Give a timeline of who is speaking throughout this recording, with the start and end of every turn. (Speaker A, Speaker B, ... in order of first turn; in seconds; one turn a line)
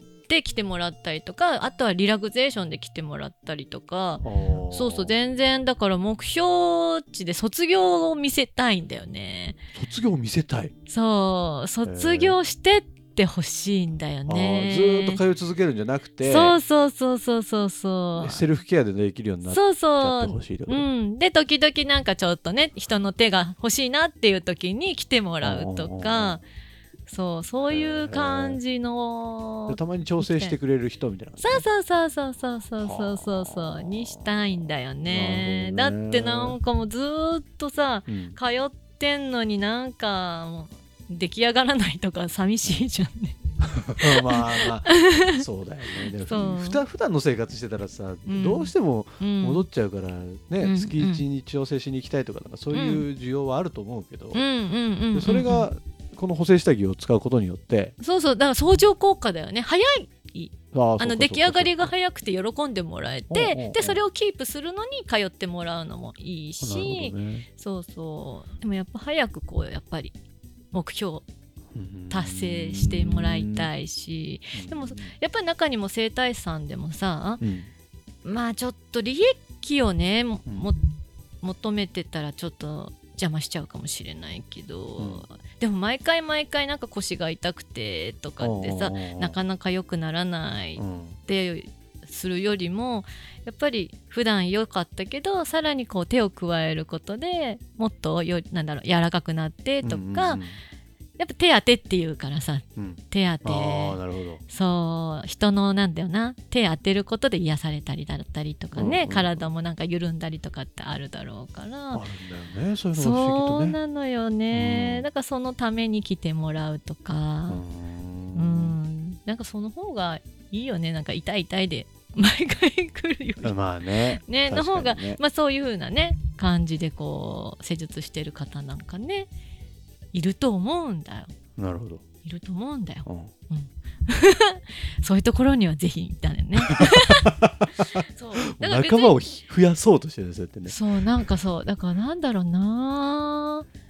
Speaker A: 0.3-9.6
Speaker B: 4.2-5.1
Speaker B: 9.7-10.7
Speaker A: 10.8-15.2
Speaker B: 11.8-12.4
Speaker B: 14.3-16.6
Speaker A: 16.3-18.4
Speaker B: 18.2-20.9
Speaker A: 19.4-26.4
Speaker B: 25.4-26.4
Speaker A: 27.1-30.6
Speaker B: 27.7-28.6
Speaker B: 29.7-31.6
Speaker A: 31.4-43.4
Speaker B: 32.8-36.6
Speaker B: 38.1-38.4
Speaker B: 43.8-54.4
Speaker A: 44.0-45.4
Speaker A: 46.0-46.8
Speaker A: 48.2-49.6
Speaker A: 50.6-51.2
Speaker A: 52.7-53.0
Speaker A: 54.3-55.7
Speaker B: 55.1-57.9
Speaker A: 58.0-70.1
Speaker B: 60.7-61.9
Speaker B: 63.3-64.0
Speaker B: 66.6-67.5
Speaker A: 70.7-71.2
Speaker B: 71.7-73.7
Speaker A: 72.1-77.4
Speaker B: 74.5-75.1
Speaker B: 77.4-77.7
Speaker A: 78.2-80.8
Speaker A: 81.4-100.4
Speaker B: 88.4-89.4
Speaker B: 90.8-91.2
Speaker B: 99.8-100.6
Speaker A: 101.2-112.0
Speaker B: 102.8-104.4
Speaker B: 108.7-109.5
Speaker B: 111.9-113.8
Speaker A: 112.9-117.6
Speaker B: 114.5-115.1
Speaker B: 117.5-118.8
Speaker A: 118.3-129.3
Speaker B: 123.4-125.2
Speaker A: 130.1-131.3
Speaker B: 131.6-132.0
Speaker A: 132.2-137.3
Speaker B: 133.1-133.3
Speaker B: 136.6-141.3
Speaker A: 138.0-139.1
Speaker A: 140.7-143.7